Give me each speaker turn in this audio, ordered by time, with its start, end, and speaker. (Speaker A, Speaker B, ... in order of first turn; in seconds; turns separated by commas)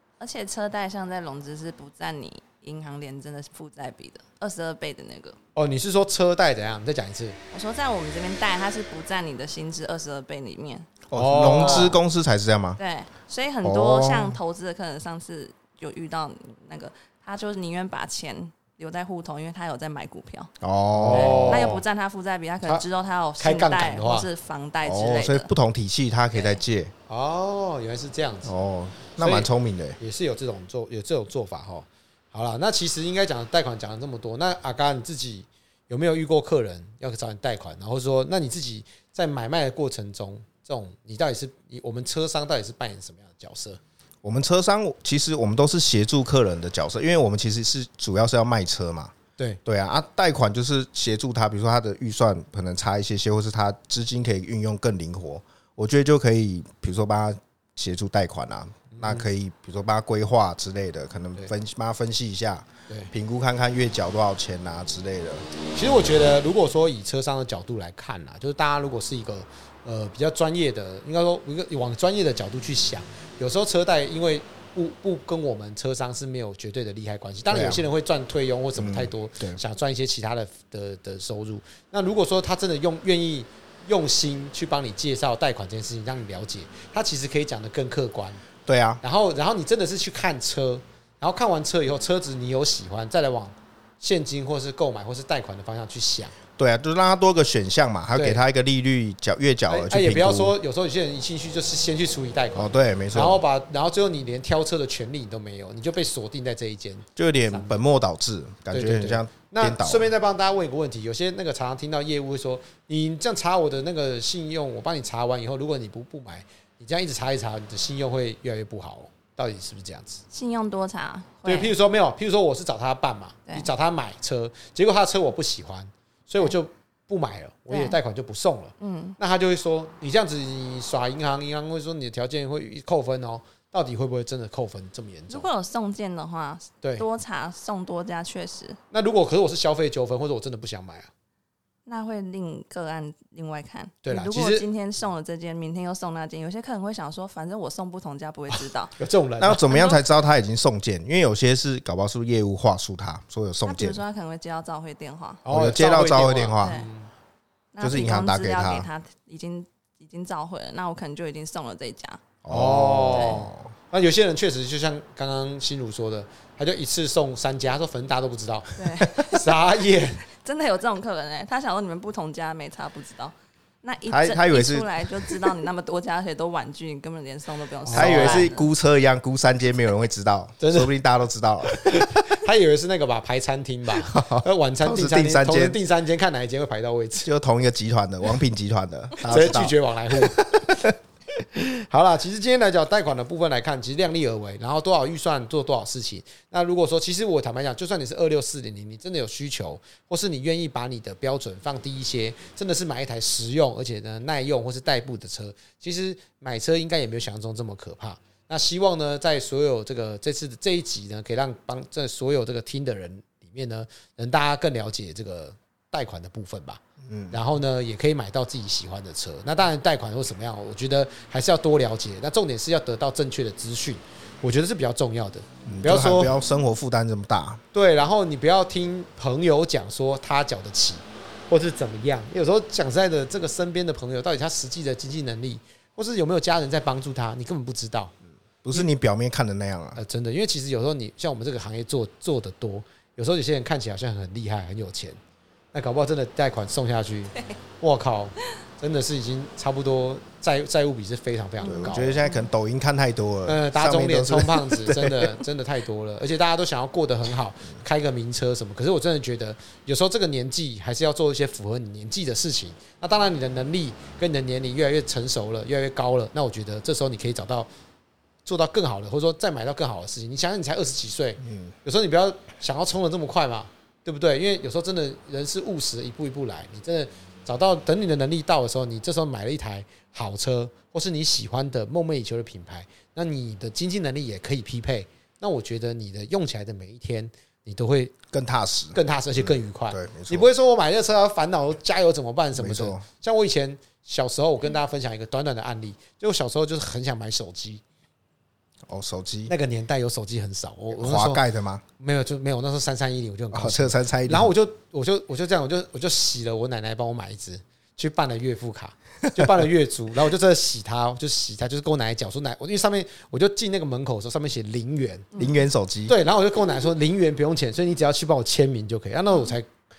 Speaker A: 0.2-5.4, Speaker B: 5.5-7.4, Speaker A: 7.5-10.9, Speaker C: 11.1-12.8, Speaker B: 11.1-11.9, Speaker A: 11.5-11.9, Speaker A: 12.8-20.5, Speaker C: 13.6-14.4, Speaker C: 20.6-21.8, Speaker B: 20.9-21.8, Speaker A: 21.1-25.5, Speaker B: 23.4-24.3, Speaker C: 24.8-26.9, Speaker A: 26.3-26.6, Speaker B: 27.1-28.5, Speaker C: 28.4-30.0, Speaker B: 29.2-43.8, Speaker C: 44.2-49.1, Speaker C: 49.6-65.5, Speaker B: 58.9-59.2, Speaker B: 65.7-88.4, Speaker C: 77.5-77.9, Speaker C: 78.8-79.6, Speaker C: 88.7-89.0, Speaker B: 89.0-96.3, Speaker C: 96.6-100.6, Speaker B: 98.1-98.4, Speaker B: 99.7-107.8, Speaker C: 102.5-103.4, Speaker C: 107.2-110.1, Speaker B: 108.7-120.2, Speaker A: 120.3-121.7, Speaker B: 121.4-135.5, Speaker A: 127.7-128.0, Speaker A: 128.8-129.2, Speaker A: 135.3-138.8, Speaker B: 138.9-141.1, Speaker A: 141.8-148.9, Speaker B: 144.0-144.7, Speaker B: 149.0-149.6, Speaker C: 149.4-154.0, Speaker A: 149.5-150.0, Speaker A: 153.6-155.4, Speaker B: 155.4-157.1, Speaker C: 155.5-156.8, Speaker A: 156.6-156.9, Speaker A: 157.7-162.2, Speaker C: 157.8-158.9, Speaker C: 162.4-163.7, Speaker B: 162.5-170.2, Speaker A: 163.1-163.4, Speaker A: 168.8-169.5, Speaker A: 170.3-178.7, Speaker C: 174.1-175.5, Speaker B: 177.8-178.5, Speaker C: 177.9-182.2, Speaker B: 180.6-180.9, Speaker B: 181.7-187.3, Speaker C: 184.0-185.8, Speaker C: 187.2-190.9, Speaker B: 189.2-190.9, Speaker B: 191.5-226.3, Speaker C: 217.0-217.4, Speaker C: 225.7-227.6, Speaker B: 227.7-238.1, Speaker C: 238.6-240.0, Speaker B: 240.0-245.2, Speaker B: 245.7-252.2, Speaker A: 251.6-252.5, Speaker C: 251.6-255.4, Speaker B: 253.4-267.7, Speaker B: 268.4-288.1, Speaker C: 271.4-271.7, Speaker C: 288.3-290.5, Speaker B: 288.9-297.8, Speaker C: 292.6-293.0, Speaker C: 298.9-299.5, Speaker B: 299.5-301.4, Speaker C: 300.9-301.8, Speaker B: 302.0-315.4, Speaker C: 303.5-304.5, Speaker C: 309.3-309.5, Speaker A: 315.3-315.6, Speaker C: 315.4-316.1, Speaker B: 316.1-319.7